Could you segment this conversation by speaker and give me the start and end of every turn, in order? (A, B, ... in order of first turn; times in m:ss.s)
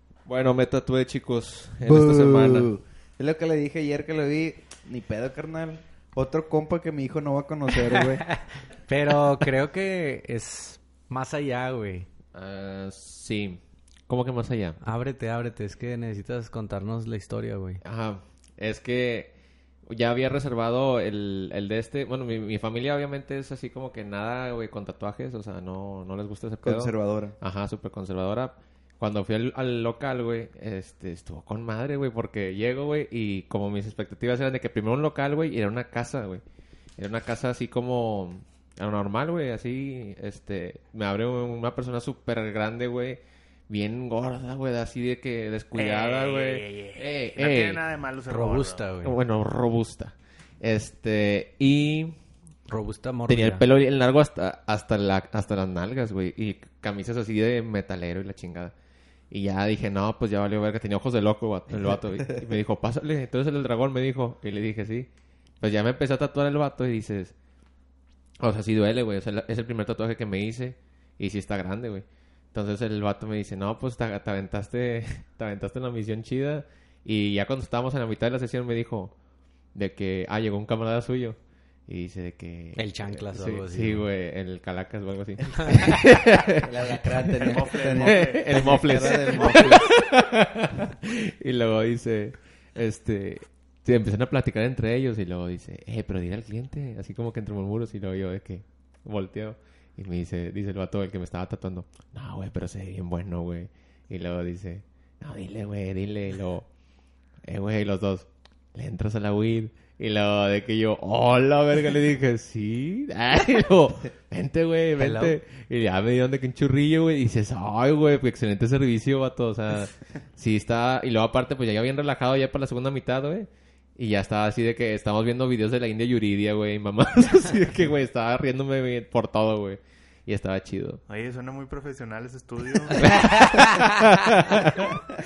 0:00.3-0:02.7 A
0:01.8-0:08.2 B
0:08.2-0:12.1 C
0:12.3-0:14.8 A
0:14.8-0:17.8 C
0:17.8-0:19.3 A
0:19.9-0:36.4 A
0:26.6-0:27.4 B
0:37.0-0:47.8 A
0:45.8-0:48.9 D
0:48.3-0:49.2 C
0:49.0-0:52.2 A
0:52.7-0:53.6 C
0:53.3-0:58.7 A
0:59.3-1:05.1 A
1:05.6-1:07.4 A
1:08.4-1:19.1 A
1:19.7-1:46.7 A
1:22.8-1:24.1 C
1:25.7-1:29.9 B
1:27.4-1:29.7 D
1:47.4-2:11.0 A
1:55.0-1:55.4 C
2:11.1-2:13.2 D
2:13.0-2:15.0 A
2:13.1-2:13.8 C